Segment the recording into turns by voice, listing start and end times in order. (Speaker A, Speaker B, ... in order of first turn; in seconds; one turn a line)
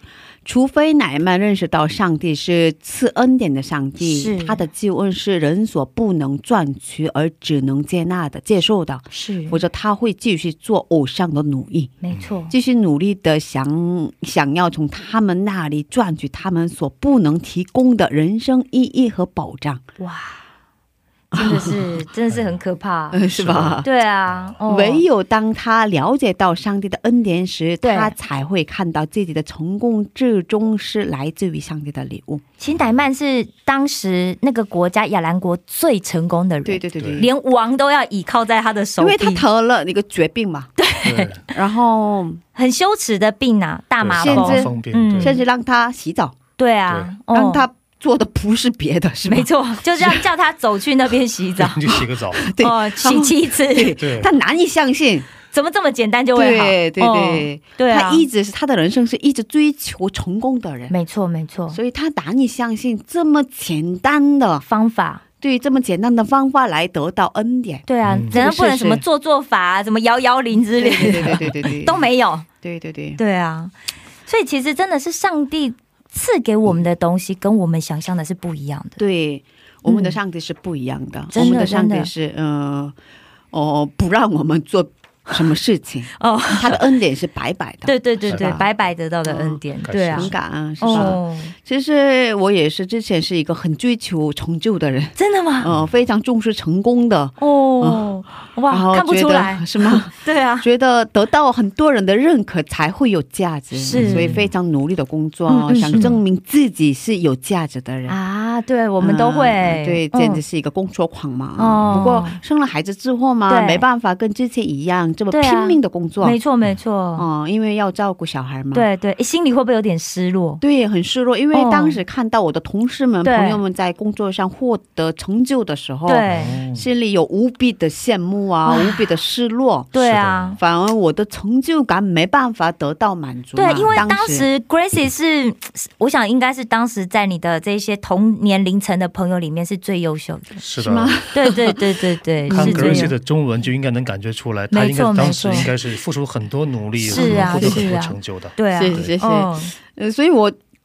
Speaker A: 0.4-11.9
Speaker B: 4.0-4.6
Speaker B: 9.1-9.6
Speaker B: 12.0-12.5
Speaker A: 12.5-19.8
Speaker B: 20.0-20.4
Speaker B: 21.3-23.2
Speaker A: 21.3-21.8
Speaker C: 22.3-22.6
Speaker A: 23.1-23.9
Speaker C: 23.3-24.6
Speaker B: 23.8-25.0
Speaker A: 24.6-32.4
Speaker B: 27.8-28.1
Speaker B: 32.6-39.4
Speaker A: 36.6-37.3
Speaker C: 37.0-37.2
Speaker A: 39.0-40.8
Speaker B: 40.8-41.4
Speaker C: 41.0-41.4
Speaker A: 41.4-42.4
Speaker B: 42.5-45.4
Speaker C: 44.0-45.3
Speaker A: 44.2-46.4
Speaker B: 46.6-47.6
Speaker A: 47.3-50.2
Speaker B: 49.3-51.9
Speaker C: 51.6-52.4
Speaker A: 51.9-55.3
Speaker B: 52.6-54.0
Speaker C: 54.0-54.3
Speaker B: 55.5-58.2
Speaker A: 56.3-60.9
Speaker B: 60.9-61.8
Speaker A: 61.7-64.6
Speaker B: 64.6-65.2
Speaker A: 65.4-69.0
Speaker B: 67.9-72.5
Speaker C: 68.0-68.3
Speaker A: 70.8-72.1
Speaker A: 72.6-73.2
Speaker B: 73.2-73.7
Speaker B: 74.3-79.0
Speaker A: 79.0-82.9
Speaker B: 79.9-80.2
Speaker B: 81.3-82.1
Speaker A: 83.5-88.6
Speaker B: 86.2-86.8
Speaker B: 87.8-91.5
Speaker C: 88.3-88.6
Speaker A: 89.2-98.1
Speaker C: 89.8-90.3
Speaker C: 90.9-91.2
Speaker B: 95.2-95.7
Speaker B: 97.4-100.7
Speaker A: 98.7-108.2
Speaker B: 103.7-104.4
Speaker C: 103.9-104.5
Speaker B: 105.5-106.2
Speaker C: 105.8-106.2
Speaker B: 108.1-110.4
Speaker A: 109.0-116.4
Speaker B: 111.6-112.4
Speaker B: 113.5-113.8
Speaker B: 115.3-117.2
Speaker A: 117.2-118.9
Speaker B: 118.7-120.6
Speaker A: 120.6-129.9
Speaker B: 121.5-122.0
Speaker B: 123.2-123.6
Speaker B: 126.0-126.6
Speaker C: 126.2-126.9
Speaker B: 128.6-129.1
Speaker B: 129.9-130.6
Speaker C: 129.9-130.6
Speaker A: 130.6-134.5
Speaker B: 133.5-140.6
Speaker C: 140.6-141.2
Speaker A: 140.8-141.8
Speaker B: 141.3-143.1
Speaker A: 142.5-143.1
Speaker C: 142.5-149.1
Speaker B: 144.7-145.7
Speaker B: 147.0-149.7
Speaker A: 147.1-147.9
Speaker A: 148.7-150.6